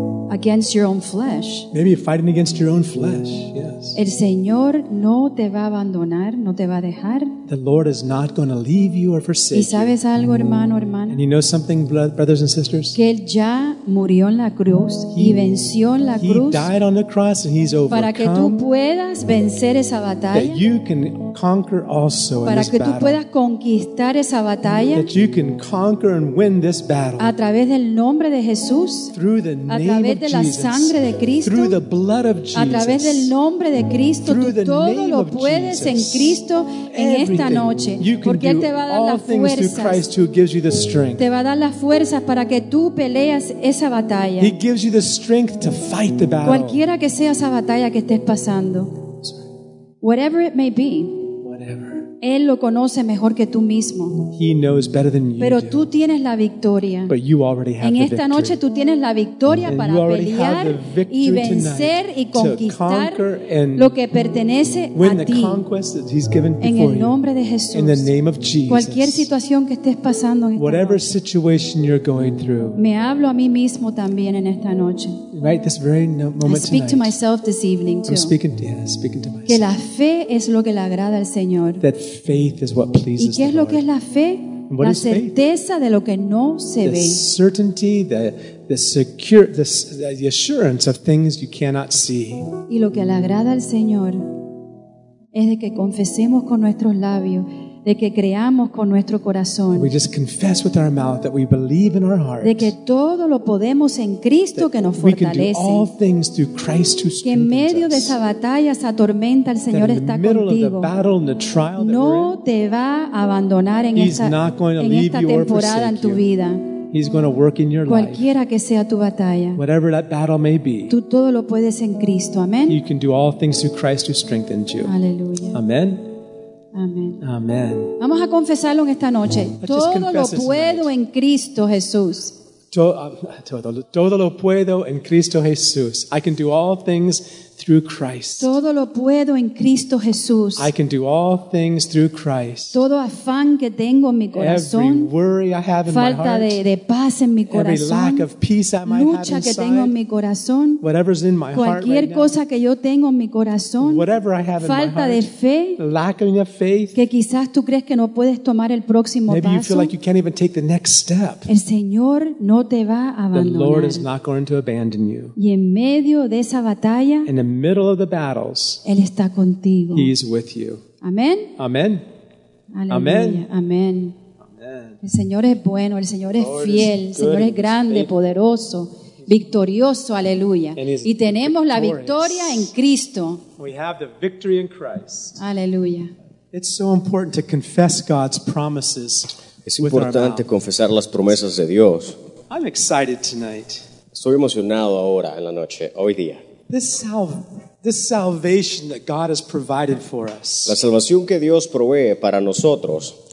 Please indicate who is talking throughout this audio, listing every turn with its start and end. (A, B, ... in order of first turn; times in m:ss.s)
0:00.3-0:01.7 A
0:01.7-0:04.0 B
0:03.9-0:07.4 A
0:07.5-0:10.0 B
0:09.5-0:11.2 A
0:11.1-0:13.0 B
0:12.9-0:16.7 A
0:15.2-0:15.6 B
0:16.2-0:18.6 B
0:17.9-0:20.6 A
0:20.3-0:23.2 B
0:22.4-0:25.1 A
0:24.9-0:27.3 B
0:27.2-0:29.1 A
0:29.1-0:33.3 B
0:29.7-0:31.8 A
0:32.5-0:40.0 A
0:34.2-0:41.2 B
0:41.2-0:44.5 A
0:44.4-0:46.8 B
0:46.4-0:49.0 A
0:50.0-0:51.3 A
0:51.4-0:52.1 B
0:52.2-0:54.3 A
0:54.4-0:55.9 B
0:55.4-0:57.1 A
0:57.1-0:58.6 B
0:57.8-1:03.2 A
0:59.6-1:04.0 B
1:03.7-1:05.6 A
1:04.9-1:07.2 B
1:06.6-1:08.1 A
1:07.7-1:09.3 B
1:08.7-1:11.1 A
1:10.6-1:12.8 B
1:12.7-1:15.3 A
1:15.3-1:17.1 B
1:16.4-1:18.3 A
1:18.1-1:19.6 B
1:19.5-1:21.8 A
1:21.8-1:23.8 B
1:23.2-1:27.2 A
1:24.7-1:25.3 B
1:26.8-1:32.5 B
1:32.6-1:34.4 A
1:35.3-1:39.9 A
1:39.7-1:42.7 B
1:42.4-1:45.9 A
1:44.5-1:48.1 B
1:47.2-1:50.9 A
1:49.7-1:52.4 B
1:51.8-1:56.8 A
1:53.9-1:56.2 B
1:56.9-1:58.2 B
1:57.9-1:59.6 A
1:59.6-2:00.9 B
2:00.9-2:02.8 A
2:02.7-2:04.9 B
2:04.8-2:05.6 A
2:05.5-2:06.1 B
2:06.7-2:07.2 A
2:07.2-2:08.0 B
2:08.0-2:12.3 A
2:09.6-2:10.9 B
2:12.7-2:18.6 B
2:18.4-2:20.7 A
2:20.6-2:22.8 B
2:22.7-2:25.1 A
2:24.4-2:26.6 B
2:25.9-2:28.3 A
2:27.5-2:29.9 B
2:28.8-2:30.8 A
2:30.8-2:32.3 B
2:31.5-2:34.0 A
2:33.8-2:37.0 B
2:34.6-2:35.8 A
2:36.9-2:39.9 A
2:39.3-2:41.5 B
2:41.5-2:44.0 A
2:43.3-2:45.4 B
2:45.4-2:47.3 A
2:47.3-2:48.8 B
2:48.8-2:50.1 A
2:49.9-2:50.8 B
2:51.0-2:51.5 A
2:51.6-2:52.0 B
2:52.7-2:54.2 A
2:52.9-2:53.5 B
2:54.6-2:55.0 B
2:55.0-3:03.4 A
2:56.3-2:58.1 C
3:00.8-3:02.7 B
3:03.6-3:05.4 B
3:05.4-3:06.1 A
3:06.5-3:10.5 B
3:09.6-3:12.2 C
3:12.5-3:13.8 B
3:14.1-3:16.4 C
3:16.7-3:20.8 B
3:20.7-3:23.1 C